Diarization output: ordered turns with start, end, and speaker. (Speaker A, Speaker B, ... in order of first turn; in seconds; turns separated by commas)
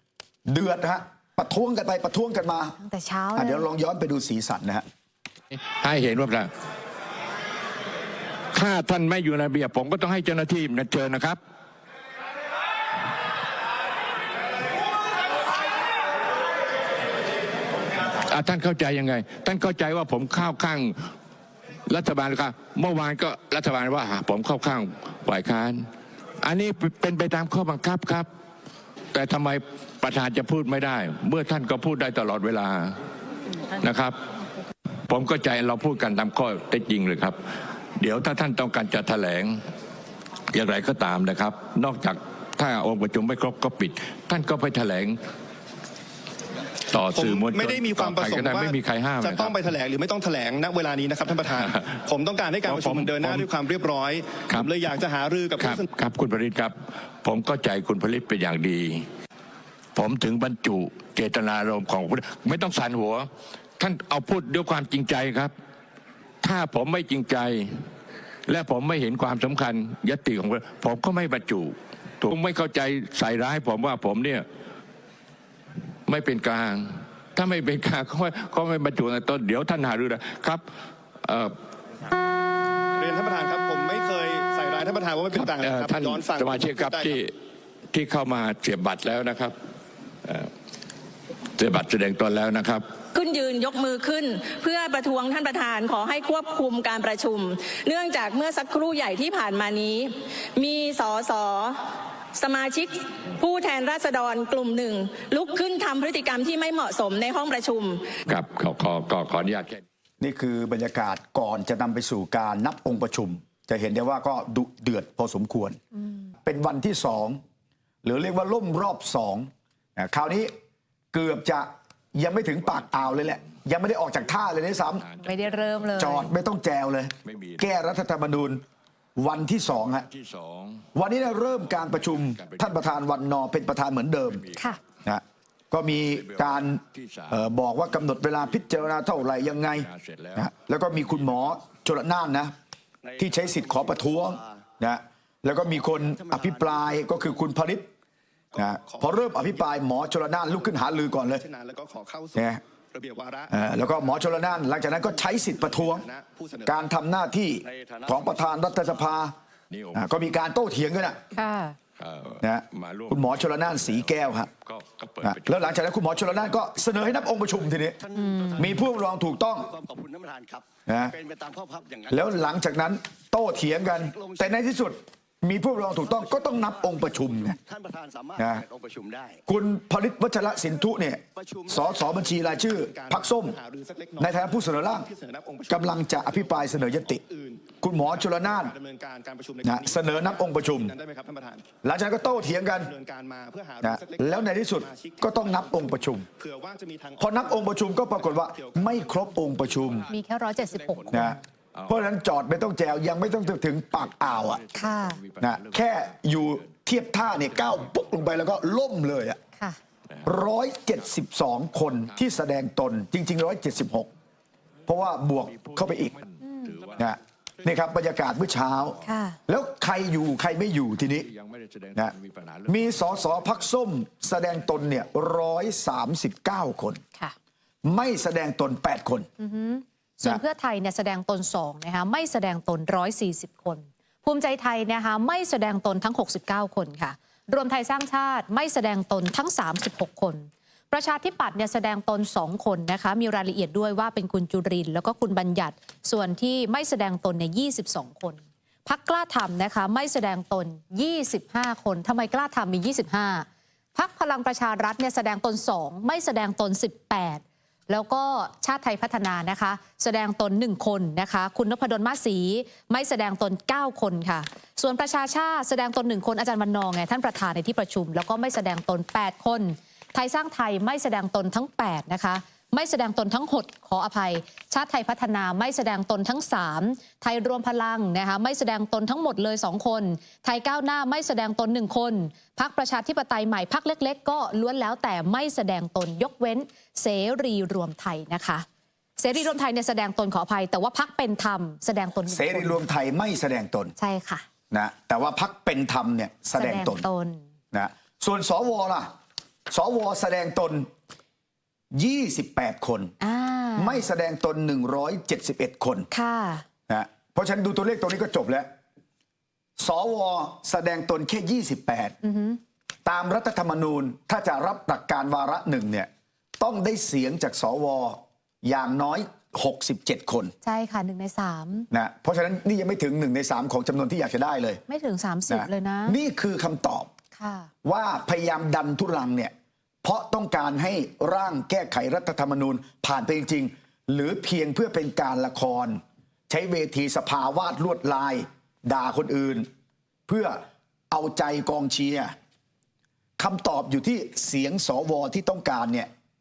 Speaker A: 0.5-2.8, Speaker B: 2.8-3.7, Speaker A: 3.3-4.8, Speaker C: 5.6-6.5, Speaker C: 8.5-11.4, Speaker C: 18.2-21.1, Speaker C: 21.9-25.8, Speaker C: 26.4-28.3, Speaker C: 29.1-33.0, Speaker C: 33.8-34.2, Speaker C: 35.1-37.4, Speaker C: 38.0-39.6, Speaker C: 40.5-45.2, Speaker C: 46.9-49.6, Speaker D: 47.1-55.8, Speaker C: 51.5-52.0, Speaker C: 52.6-53.5, Speaker C: 55.6-59.1, Speaker C: 60.0-65.5, Speaker C: 66.4-67.7, Speaker C: 68.5-74.5, Speaker C: 76.1-80.6, Speaker C: 81.2-81.5, Speaker D: 83.0-87.1, Speaker C: 85.3-87.3, Speaker C: 87.9-89.5, Speaker C: 90.2-90.5, Speaker C: 91.6-92.9, Speaker E: 93.2-101.8, Speaker E: 102.4-108.0, Speaker C: 108.3-109.8, Speaker A: 110.2-115.8, Speaker A: 116.4-117.4, Speaker A: 118.0-120.5, Speaker A: 121.1-125.0, Speaker C: 122.7-123.5, Speaker C: 124.8-126.3, Speaker B: 125.2-126.3, Speaker A: 126.0-128.6, Speaker C: 127.2-127.7, Speaker A: 129.2-130.1, Speaker C: 130.0-130.9, Speaker A: 130.9-134.4, Speaker C: 131.4-132.8, Speaker C: 134.3-134.7, Speaker A: 135.1-142.5, Speaker C: 136.1-137.5, Speaker C: 139.4-140.5, Speaker F: 143.1-144.5, Speaker A: 143.2-147.9, Speaker F: 146.0-147.0, Speaker D: 148.5-149.8, Speaker A: 148.6-151.4, Speaker D: 151.3-153.5, Speaker A: 152.3-152.6, Speaker A: 153.5-156.1, Speaker D: 154.8-156.8, Speaker A: 156.7-159.3, Speaker F: 157.7-158.9, Speaker C: 159.7-160.1, Speaker A: 159.9-161.2, Speaker B: 161.3-161.8, Speaker C: 162.0-165.8, Speaker A: 162.4-164.5, Speaker A: 165.2-168.0, Speaker F: 168.0-168.8, Speaker B: 168.1-168.7, Speaker A: 168.6-169.7, Speaker F: 169.7-172.6, Speaker A: 170.9-171.2, Speaker A: 172.1-177.6, Speaker F: 173.8-174.6, Speaker F: 176.0-179.4, Speaker A: 178.4-178.6, Speaker A: 179.5-183.6, Speaker F: 181.4-181.8, Speaker D: 182.5-191.7, Speaker A: 184.2-185.1, Speaker A: 185.7-187.2, Speaker A: 187.8-188.7, Speaker A: 189.6-190.9, Speaker A: 191.8-192.9, Speaker D: 192.2-200.1, Speaker A: 193.8-196.3, Speaker A: 197.2-200.1, Speaker B: 200.1-201.3, Speaker D: 200.8-201.2, Speaker A: 201.1-204.6, Speaker C: 201.8-202.0, Speaker C: 204.0-205.9, Speaker B: 204.7-205.2, Speaker A: 205.4-209.4, Speaker C: 207.6-208.0, Speaker A: 210.2-214.1, Speaker A: 214.9-216.2, Speaker C: 215.6-217.1, Speaker B: 216.4-216.8, Speaker A: 217.0-219.0, Speaker B: 219.0-219.4, Speaker A: 219.5-221.3, Speaker C: 221.3-223.5, Speaker A: 222.7-227.0, Speaker A: 227.8-229.3, Speaker B: 229.4-288.6, Speaker B: 289.2-292.8, Speaker A: 292.3-293.9, Speaker B: 294.0-294.5, Speaker A: 294.7-297.1, Speaker B: 296.6-297.4, Speaker A: 297.7-299.1, Speaker A: 299.7-300.9, Speaker A: 301.9-303.1, Speaker B: 303.2-304.1, Speaker A: 303.8-306.1, Speaker B: 306.1-306.7, Speaker A: 306.9-308.7, Speaker A: 309.8-312.2, Speaker B: 312.2-312.6, Speaker A: 313.1-316.1, Speaker A: 316.6-320.5, Speaker B: 320.6-321.9, Speaker A: 321.9-324.8, Speaker B: 324.9-326.2, Speaker A: 325.5-327.1, Speaker B: 327.4-327.7, Speaker A: 327.9-329.5, Speaker A: 330.0-339.7, Speaker A: 340.3-342.3, Speaker A: 343.4-346.1